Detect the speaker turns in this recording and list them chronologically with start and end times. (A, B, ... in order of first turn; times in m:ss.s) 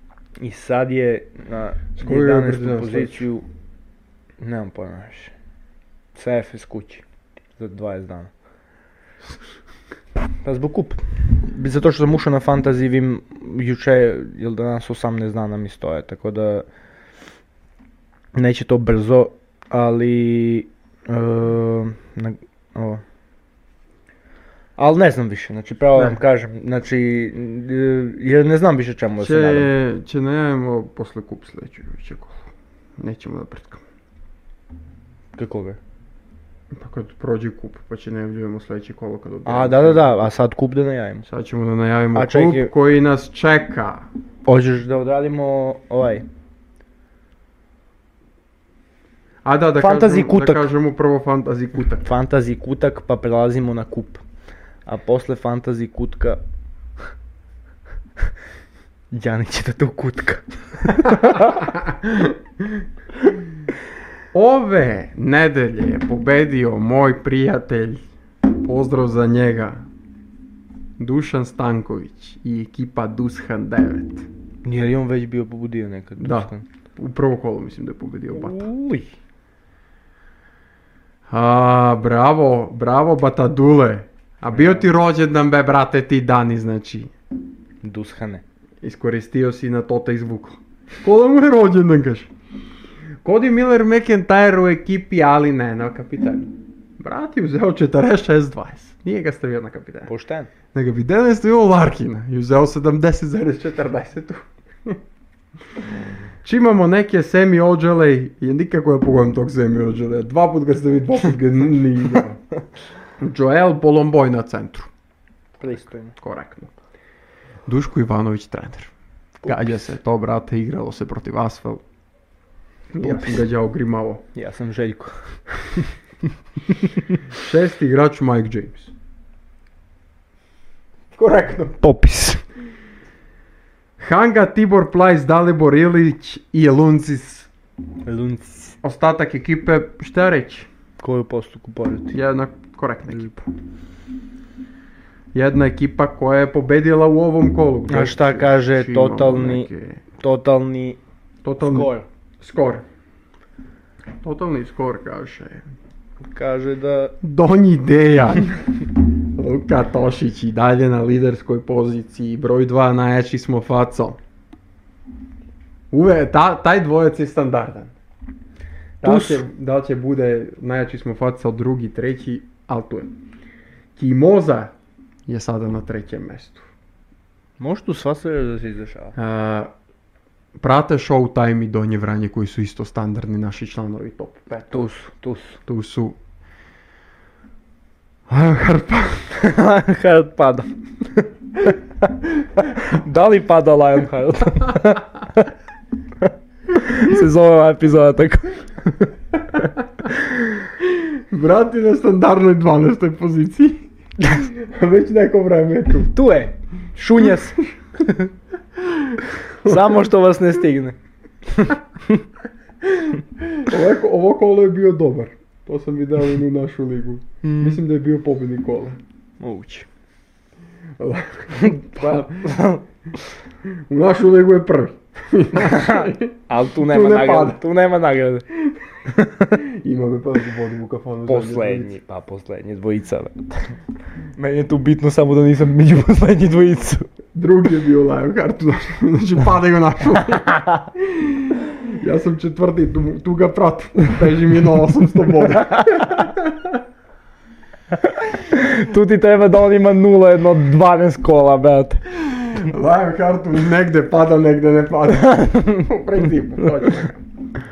0:00.4-0:03.4 A
0:02.0-0:03.3 B
0:04.4-0:05.3 A
0:06.2-0:07.0 A
0:07.6-0:08.3 A
0:10.4-0:16.6 A
0:18.4-0:23.0 A
0:24.8-0:29.7 A
0:26.0-0:26.2 B
0:29.2-0:32.4 B
0:33.0-0:33.8 B
0:35.4-0:35.8 A
0:36.7-0:40.3 B
0:39.5-0:41.3 A
0:41.3-0:44.1 B
0:42.2-0:42.7 A
0:44.5-0:46.3 A
0:49.4-0:52.1 B
0:49.8-0:50.7 A
0:52.0-0:54.2 A
0:54.9-0:56.4 A
0:59.1-1:01.6 A
1:01.1-1:02.8 B
1:04.3-1:09.9 B
1:11.0-1:14.3 B
1:14.6-1:16.6 A
1:16.2-1:18.6 B
1:18.3-1:19.1 A
1:21.3-1:27.1 B
1:24.5-1:24.8 A
1:27.8-1:28.4 A
1:28.8-1:32.3 B
1:33.2-1:40.1 B
1:40.1-1:40.5 A
1:40.7-1:45.0 B
1:46.4-1:52.4 B
1:53.2-1:54.9 B
1:55.6-1:56.2 A
1:56.2-1:56.7 B
1:57.7-1:58.9 B
1:59.4-1:59.8 A
1:59.4-2:01.8 B
2:02.9-2:03.4 A
2:03.0-2:04.2 B
2:04.4-2:05.2 A
2:06.7-2:07.2 A
2:07.4-2:08.9 B
2:11.1-2:11.8 B
2:11.8-2:12.4 A
2:14.0-2:17.5 B
2:18.0-2:18.8 A
2:18.8-2:20.7 B
2:21.0-2:22.2 A
2:22.1-2:23.5 B
2:25.3-2:30.0 B
2:27.9-2:31.0 A
2:31.4-2:32.8 B
2:31.6-2:32.1 A
2:34.2-2:35.7 B
2:36.3-2:37.2 A
2:37.2-2:44.2 B
2:45.9-2:47.9 B
2:49.0-2:53.2 B
2:49.0-2:49.4 A
2:54.0-2:54.7 B
2:55.3-2:56.7 B
2:57.6-2:59.2 A
2:59.2-2:59.7 B
3:00.6-3:04.9 B
3:04.7-3:05.6 A
3:05.7-3:06.2 B
3:08.3-3:09.4 B
3:09.3-3:11.8 A
3:12.6-3:15.5 A
3:16.2-3:20.5 A
3:20.8-3:26.1 B
3:26.1-3:28.3 A
3:28.8-3:30.1 B
3:29.6-3:31.0 A
3:31.5-3:32.2 A
3:32.8-3:39.0 B
3:37.4-3:37.8 A
3:39.4-3:39.9 A
3:41.0-3:42.6 B
3:41.6-3:42.8 A
3:43.9-3:47.6 B
3:45.6-3:48.5 A
3:49.1-3:49.6 A
3:49.5-3:52.0 B
3:51.3-3:53.8 A
3:54.4-3:57.1 A
3:57.3-4:06.8 B
4:00.5-4:00.8 A
4:05.7-4:06.1 A
4:08.0-4:12.0 A
4:12.3-4:17.2 B
4:15.4-4:15.8 A